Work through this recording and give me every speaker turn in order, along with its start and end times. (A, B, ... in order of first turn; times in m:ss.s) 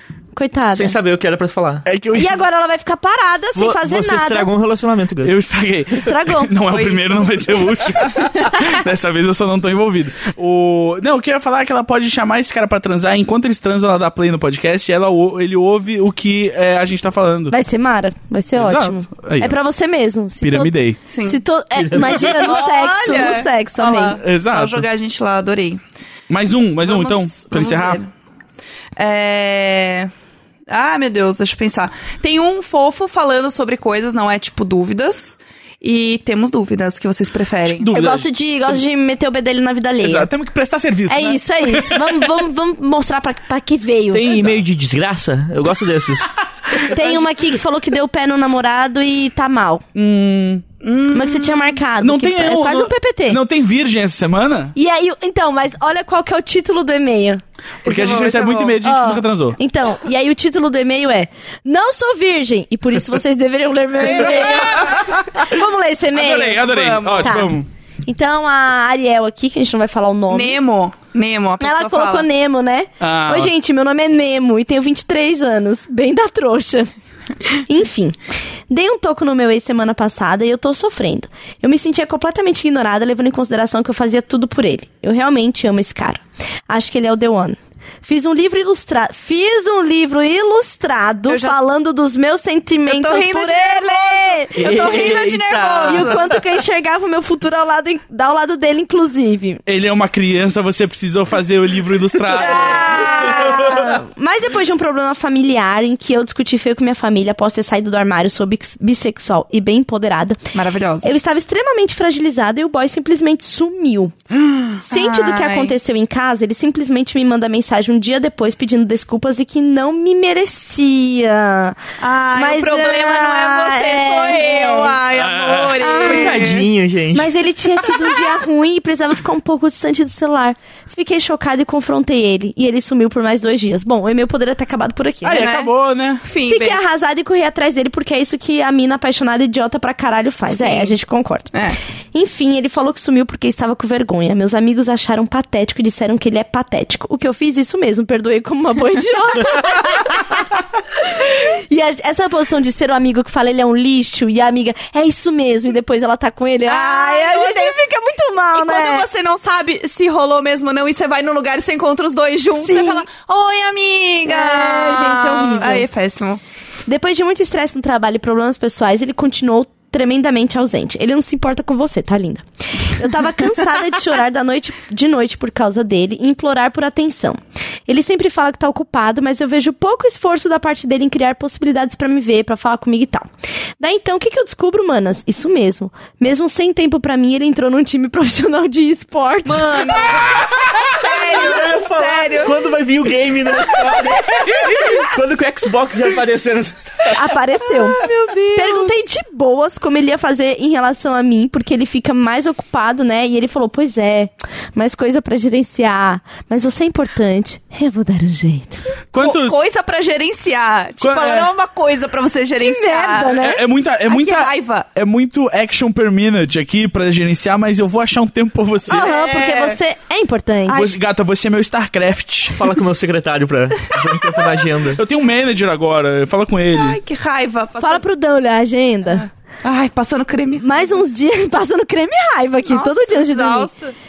0:00.3-0:00.9 A
0:00.7-0:01.8 B
0:01.8-0:02.4 C
0:02.1-0:04.5 A
0:03.5-0:05.4 B
0:05.2-0:17.5 C
0:05.9-0:06.6 A
0:06.7-0:08.5 D
0:17.5-0:24.2 A
0:18.6-0:19.6 C
0:20.4-0:21.0 C
0:21.1-0:21.4 D
0:21.8-0:22.4 B
0:22.2-0:25.8 D
0:24.2-0:24.8 C
0:26.3-0:28.0 C
0:26.8-0:28.1 D
0:29.0-0:30.1 D
0:30.7-0:37.9 D
0:37.7-0:38.8 C
0:37.9-0:40.3 A
0:40.0-0:42.3 C
0:41.1-0:44.2 A
0:44.1-0:46.3 B
0:44.2-0:44.6 C
0:46.8-0:49.8 A
0:49.9-0:50.6 C
0:50.8-0:51.8 D
0:51.1-0:53.4 A
0:52.0-0:54.7 C
0:54.7-0:57.4 A
0:57.8-0:58.8 D
0:57.8-0:59.6 C
0:58.8-1:10.6 A
1:04.0-1:05.0 D
1:04.4-1:05.2 C
1:06.1-1:07.6 C
1:06.5-1:07.6 D
1:10.3-1:12.2 D
1:11.6-1:16.9 A
1:13.0-1:13.5 C
1:17.4-1:18.2 A
1:18.7-1:34.7 A
1:31.3-1:31.6 D
1:32.9-1:36.2 D
1:34.6-1:36.4 B
1:35.8-1:39.6 A
1:39.6-1:43.9 C
1:42.3-1:43.8 D
1:42.4-1:50.4 A
1:50.5-1:51.1 D
1:51.0-1:54.1 A
1:54.9-1:55.7 D
1:54.9-2:01.8 A
2:02.0-2:06.7 D
2:02.3-2:05.0 A
2:05.1-2:05.8 C
2:05.8-2:06.5 A
2:06.0-2:07.3 B
2:07.1-2:15.5 A
2:15.2-2:16.2 C
2:15.4-2:16.8 D
2:16.4-2:21.5 A
2:20.5-2:20.9 D
2:21.5-2:21.8 D
2:22.1-2:39.0 A
2:36.6-2:37.8 D
2:38.5-2:46.4 D
2:42.6-2:43.1 A
2:44.3-2:45.8 A
2:46.9-3:03.3 A
3:03.8-3:10.2 A
3:09.4-3:12.6 D
3:10.9-3:17.3 B
3:17.1-3:28.8 A
3:17.7-3:19.0 D
3:29.1-3:29.6 C
3:29.2-3:33.4 D
3:31.0-3:31.5 C
3:32.6-3:33.6 A
3:33.3-3:39.1 C
3:34.0-3:34.9 D
3:38.9-3:40.9 A
3:38.9-3:39.8 D
3:40.7-3:41.0 D
3:40.7-3:42.6 C
3:42.5-3:45.0 B
3:43.9-3:44.5 D
3:44.9-3:47.0 C
3:46.7-3:48.0 D
3:47.8-3:49.3 A
3:49.1-3:50.8 D
3:50.6-3:53.7 A
3:52.6-3:53.9 D